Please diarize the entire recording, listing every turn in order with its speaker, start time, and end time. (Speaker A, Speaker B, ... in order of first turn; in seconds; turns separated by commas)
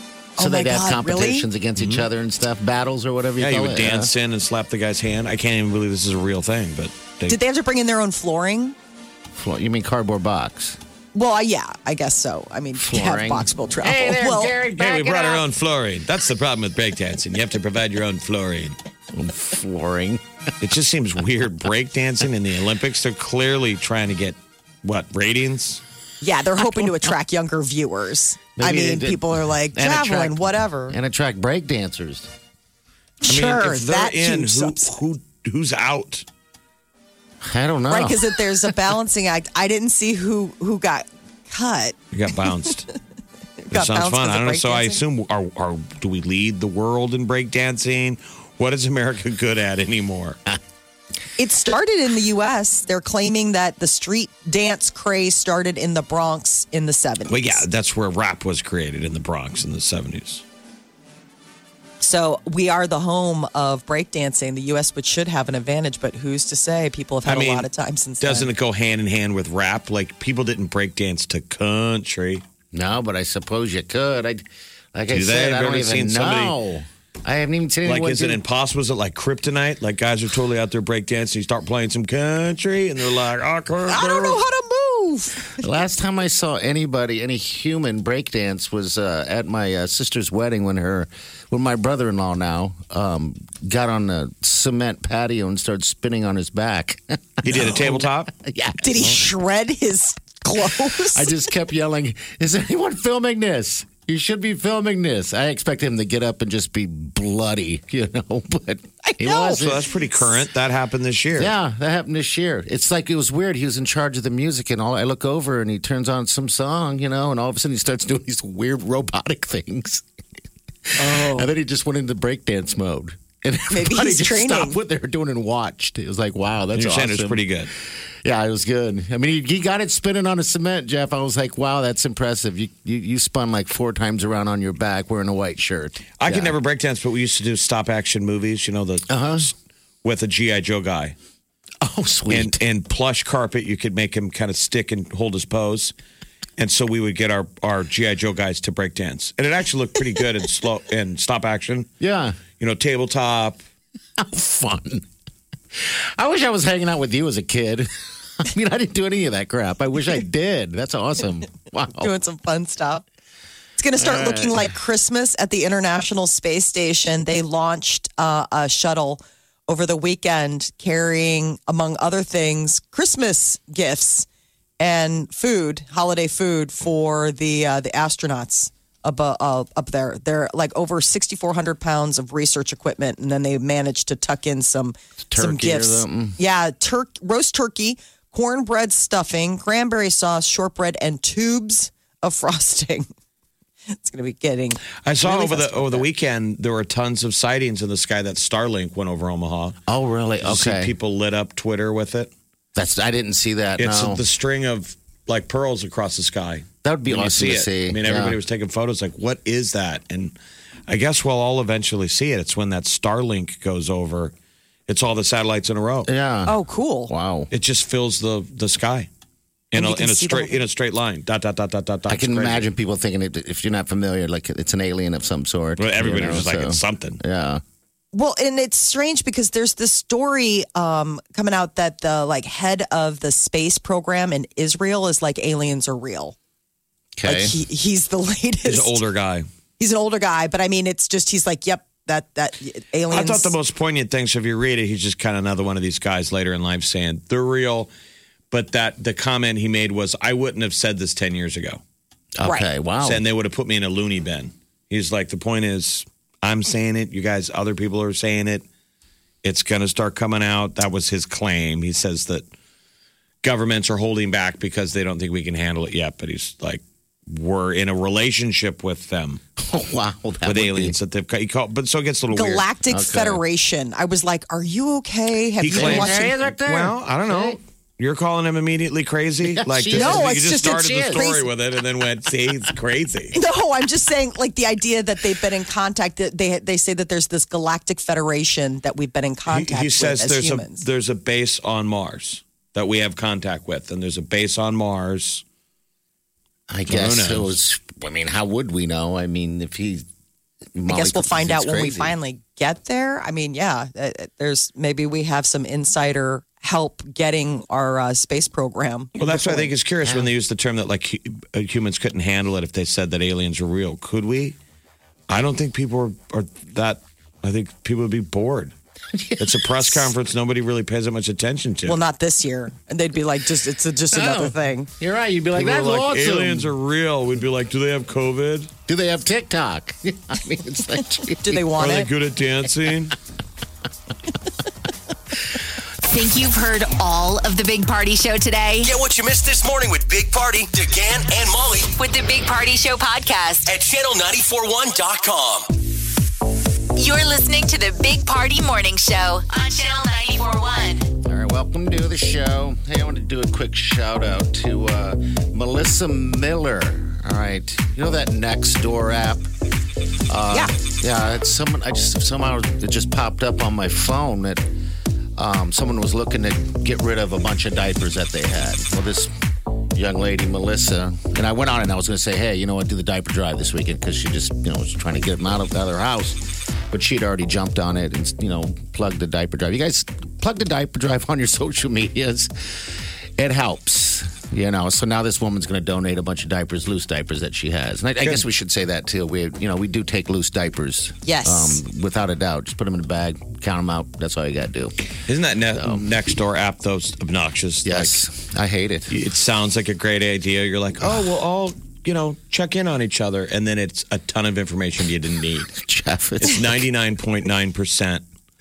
Speaker A: 0.4-1.5, Speaker B: 0.4-4.1, Speaker C: 1.8-2.0, Speaker C: 3.4-7.4, Speaker A: 7.3-8.8, Speaker B: 9.3-10.8, Speaker A: 11.1-14.6, Speaker B: 12.8-15.4, Speaker C: 14.7-18.8, Speaker B: 19.1-20.2, Speaker C: 20.6-25.8, Speaker A: 26.2-30.9, Speaker B: 28.6-32.3, Speaker A: 33.2-35.0, Speaker C: 33.2-36.2, Speaker B: 37.4-38.3, Speaker A: 37.9-42.0, Speaker C: 42.1-42.9, Speaker A: 43.6-45.0, Speaker C: 43.7-50.4, Speaker A: 51.4-57.6, Speaker C: 57.3-60.4, Speaker A: 62.0-68.5, Speaker C: 67.2-67.7, Speaker C: 68.2-72.4, Speaker B: 72.7-78.4, Speaker C: 75.1-76.5, Speaker C: 77.8-84.4, Speaker A: 83.9-85.5, Speaker B: 85.5-99.2, Speaker C: 97.4-98.3, Speaker A: 98.8-101.3, Speaker B: 101.1-109.9, Speaker A: 109.0-109.8, Speaker C: 109.3-111.5, Speaker B: 111.3-120.0, Speaker B: 120.9-127.4, Speaker A: 121.0-121.5, Speaker A: 123.7-124.7, Speaker C: 126.7-127.7, Speaker B: 128.2-136.6, Speaker C: 136.2-141.1, Speaker B: 139.1-139.5, Speaker B: 141.8-142.6, Speaker C: 142.3-145.9, Speaker C: 146.6-151.9, Speaker B: 152.0-152.4, Speaker C: 152.6-153.6, Speaker B: 154.2-155.1, Speaker B: 155.7-162.1, Speaker A: 162.0-163.0, Speaker A: 163.8-174.3, Speaker B: 164.0-164.7, Speaker A: 174.8-193.1, Speaker B: 185.3-186.4, Speaker A: 193.9-196.1, Speaker C: 195.0-199.8, Speaker B: 199.9-200.9, Speaker C: 200.4-202.3, Speaker B: 202.7-204.2, Speaker C: 203.8-210.3, Speaker B: 206.8-208.4, Speaker C: 210.9-214.3, Speaker C: 214.9-216.1, Speaker B: 216.1-216.6, Speaker A: 216.4-217.1, Speaker B: 217.1-217.5, Speaker C: 217.5-219.1, Speaker C: 219.7-222.7, Speaker A: 219.7-220.6, Speaker B: 222.1-227.6, Speaker C: 225.8-227.2, Speaker A: 228.1-236.3, Speaker B: 237.2-237.5, Speaker A: 237.2-239.0, Speaker C: 238.6-239.5, Speaker A: 239.8-243.5, Speaker C: 243.1-247.9, Speaker C: 248.5-251.8, Speaker B: 252.4-253.2, Speaker C: 253.0-258.6, Speaker C: 259.4-262.4, Speaker C: 263.4-269.4, Speaker B: 269.6-270.9, Speaker C: 270.4-272.6, Speaker A: 272.3-276.3, Speaker B: 272.9-273.4, Speaker C: 275.6-283.4, Speaker B: 275.7-277.6, Speaker B: 279.4-281.3, Speaker A: 279.9-281.4, Speaker A: 283.3-290.9, Speaker C: 289.5-295.4, Speaker B: 296.7-300.1, Speaker C: 296.9-297.5, Speaker B: 300.7-302.1, Speaker A: 300.9-309.7, Speaker C: 309.2-314.6, Speaker B: 310.0-310.3, Speaker C: 315.3-318.7, Speaker B: 319.1-320.1, Speaker C: 319.4-322.0, Speaker A: 321.9-324.9, Speaker B: 324.1-326.7, Speaker C: 325.5-328.7, Speaker B: 328.9-331.6, Speaker A: 331.4-332.1, Speaker C: 331.8-333.1, Speaker D: 336.0-338.9, Speaker E: 338.8-341.9, Speaker D: 341.9-343.7, Speaker E: 343.6-345.7, Speaker D: 346.9-351.1, Speaker B: 351.2-359.5, Speaker B: 360.3-364.7, Speaker B: 365.4-369.3, Speaker B: 369.9-395.0, Speaker A: 391.2-391.8, Speaker C: 395.2-398.2, Speaker B: 395.7-396.0, Speaker B: 397.8-399.1, Speaker C: 399.1-405.8, Speaker B: 405.7-406.7, Speaker C: 406.4-408.2